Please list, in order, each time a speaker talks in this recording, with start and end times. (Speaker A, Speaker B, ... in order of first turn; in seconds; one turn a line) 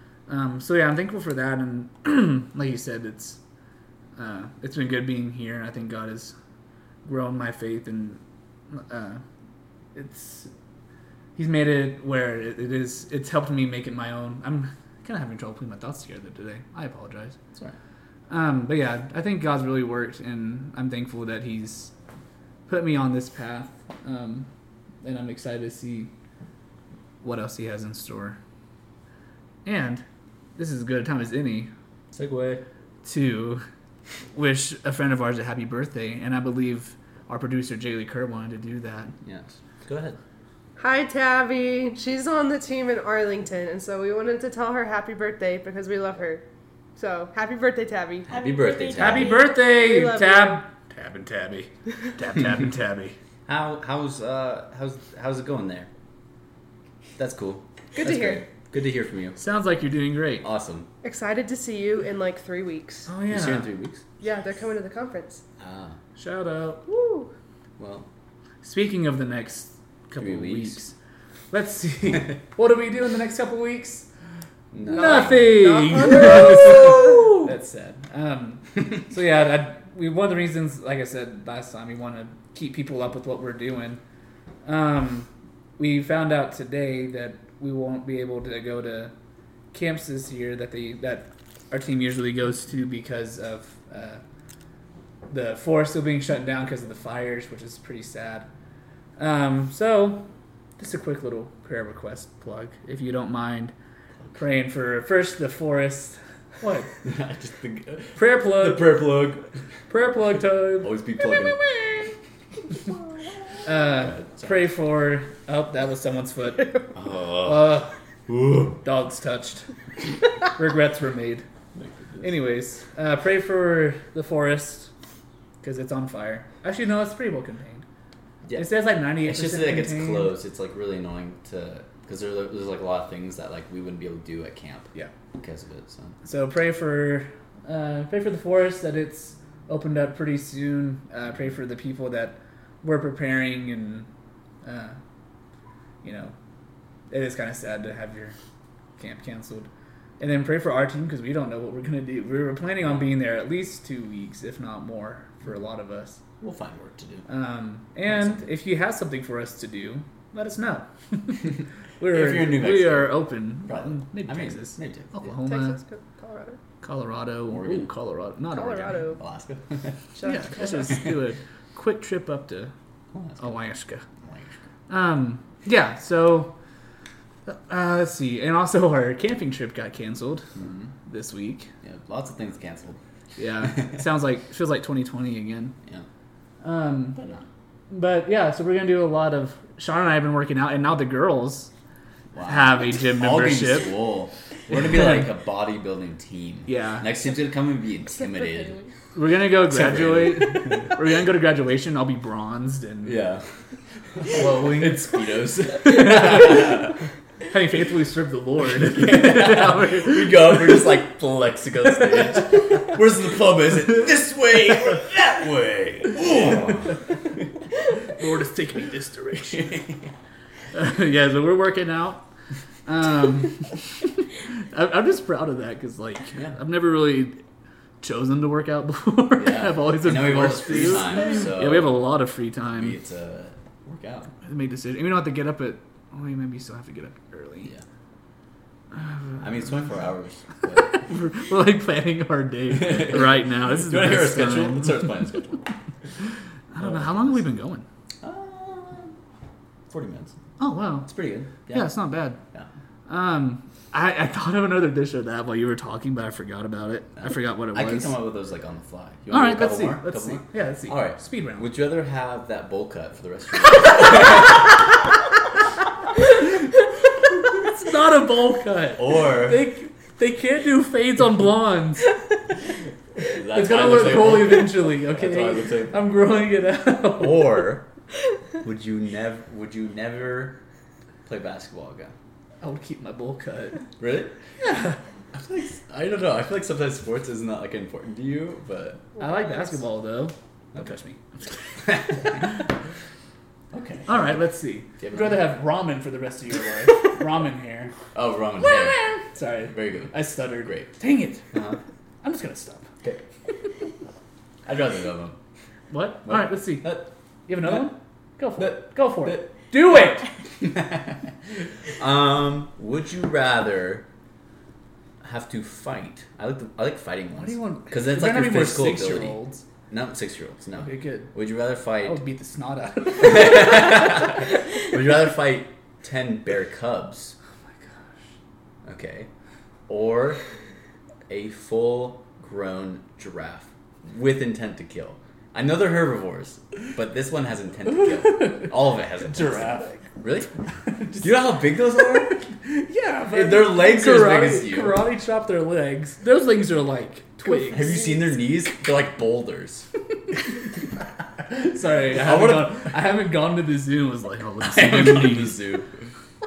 Speaker A: 0.3-3.4
Speaker A: 4.2-6.3
Speaker A: 7.0-9.2
Speaker A: 9.9-10.5
Speaker A: 11.4-17.4
Speaker A: 18.3-21.9
Speaker A: 22.7-24.5
Speaker A: 25.0-26.1
Speaker A: 27.2-28.4
Speaker A: 29.6-30.1
Speaker A: 30.6-31.7
Speaker B: 32.1-32.6
Speaker A: 33.0-33.6
Speaker A: 34.3-39.1
Speaker B: 39.2-40.2
Speaker C: 40.8-46.4
Speaker C: 47.0-50.6
Speaker B: 48.3-49.4
Speaker A: 49.0-53.2
Speaker B: 53.5-55.9
Speaker B: 57.2-59.4
Speaker C: 57.9-58.4
Speaker A: 59.4-60.5
Speaker B: 60.4-60.9
Speaker C: 61.0-63.1
Speaker A: 63.1-63.7
Speaker B: 63.3-64.0
Speaker C: 64.2-65.4
Speaker B: 65.6-66.0
Speaker A: 66.2-66.8
Speaker C: 66.9-67.3
Speaker B: 67.8-68.1
Speaker A: 68.6-70.9
Speaker B: 70.2-70.8
Speaker A: 71.5-74.1
Speaker B: 74.7-75.7
Speaker C: 74.9-77.3
Speaker A: 74.9-84.0
Speaker A: 84.7-89.1
Speaker A: 89.7-94.2
Speaker A: 95.3-98.5
Speaker A: 99.2-100.3
Speaker A: 100.8-103.7
Speaker A: 104.3-107.0
Speaker B: 107.0-109.5
Speaker A: 108.2-109.0
Speaker A: 109.9-111.0
Speaker B: 110.8-112.1
Speaker C: 111.3-112.0
Speaker A: 113.6-117.9
Speaker B: 113.9-114.7
Speaker B: 116.9-118.8
Speaker A: 118.8-119.7
Speaker A: 120.4-121.5
Speaker B: 121.8-122.3
Speaker A: 122.2-124.9
Speaker A: 125.6-127.8
Speaker B: 128.4-136.2
Speaker A: 128.6-130.4
Speaker A: 136.2-144.1
Speaker A: 144.6-145.0
Speaker A: 146.0-146.3
Speaker A: 147.1-148.4
Speaker A: 149.0-149.7
Speaker A: 150.2-156.2
Speaker B: 156.4-157.3
Speaker A: 157.3-165.8
Speaker B: 158.1-158.4
Speaker B: 162.1-165.2
Speaker C: 165.4-166.6
Speaker A: 166.8-169.1
Speaker B: 167.5-167.9
Speaker C: 168.5-169.2
Speaker B: 169.1-170.1
Speaker C: 170.2-171.1
Speaker A: 170.2-172.7
Speaker B: 173.1-173.6
Speaker A: 173.4-174.1
Speaker B: 174.2-174.6
Speaker A: 174.9-176.6
Speaker A: 177.5-180.6
Speaker B: 180.6-180.9
Speaker A: 181.1-181.7
Speaker B: 181.8-183.0
Speaker A: 183.4-185.8
Speaker B: 183.6-183.9
Speaker A: 186.6-187.2
Speaker B: 187.2-187.5
Speaker A: 187.9-191.7
Speaker B: 192.3-198.8
Speaker A: 192.4-194.1
Speaker A: 194.7-195.3
Speaker A: 196.7-197.1
Speaker A: 199.1-203.2
Speaker B: 199.7-201.0
Speaker B: 203.0-203.4
Speaker B: 204.1-207.0
Speaker A: 204.2-205.1
Speaker A: 205.9-206.7
Speaker A: 207.5-210.5
Speaker B: 208.7-217.4
Speaker A: 218.1-219.8
Speaker B: 219.4-220.1
Speaker A: 220.7-222.3
Speaker A: 222.9-227.4
Speaker A: 228.0-233.0
Speaker B: 229.4-232.0
Speaker B: 232.8-234.3
Speaker A: 234.4-237.7
Speaker A: 238.9-239.4
Speaker B: 239.4-241.0
Speaker A: 240.8-245.2
Speaker B: 242.7-245.7
Speaker A: 246.7-247.9
Speaker B: 246.8-247.4
Speaker B: 248.2-249.2
Speaker B: 249.9-250.4
Speaker A: 250.6-251.1
Speaker B: 251.1-251.9
Speaker A: 251.7-252.4
Speaker A: 253.1-258.2
Speaker B: 257.2-264.7
Speaker A: 259.3-261.7
Speaker A: 267.4-272.2
Speaker B: 269.0-269.7
Speaker B: 273.2-276.1
Speaker A: 273.3-277.6
Speaker B: 277.2-277.9
Speaker B: 278.6-280.6
Speaker B: 281.3-282.1
Speaker A: 282.6-283.9
Speaker B: 284.0-284.4
Speaker A: 284.6-285.0
Speaker B: 285.3-289.1
Speaker A: 289.2-291.2
Speaker B: 291.8-292.6
Speaker A: 292.2-292.6
Speaker B: 293.7-294.3
Speaker A: 294.1-297.9
Speaker B: 295.0-295.5
Speaker B: 298.1-300.9
Speaker A: 299.3-301.6
Speaker B: 301.5-301.8
Speaker A: 302.2-302.9
Speaker B: 304.7-305.4
Speaker A: 305.9-310.3
Speaker B: 306.2-307.1
Speaker B: 308.6-309.5
Speaker B: 310.4-314.1
Speaker B: 315.2-322.2
Speaker A: 317.4-319.6
Speaker A: 320.8-321.3
Speaker A: 322.0-324.4
Speaker B: 323.2-327.4
Speaker A: 327.7-328.3
Speaker B: 328.9-329.3
Speaker B: 329.9-330.4
Speaker B: 331.3-340.5
Speaker A: 338.0-338.7
Speaker A: 339.3-340.0
Speaker A: 340.9-341.3
Speaker B: 341.2-342.5
Speaker A: 341.9-348.1
Speaker B: 343.3-345.0
Speaker B: 347.6-349.9
Speaker A: 351.4-355.6
Speaker B: 352.1-352.9
Speaker B: 354.6-356.1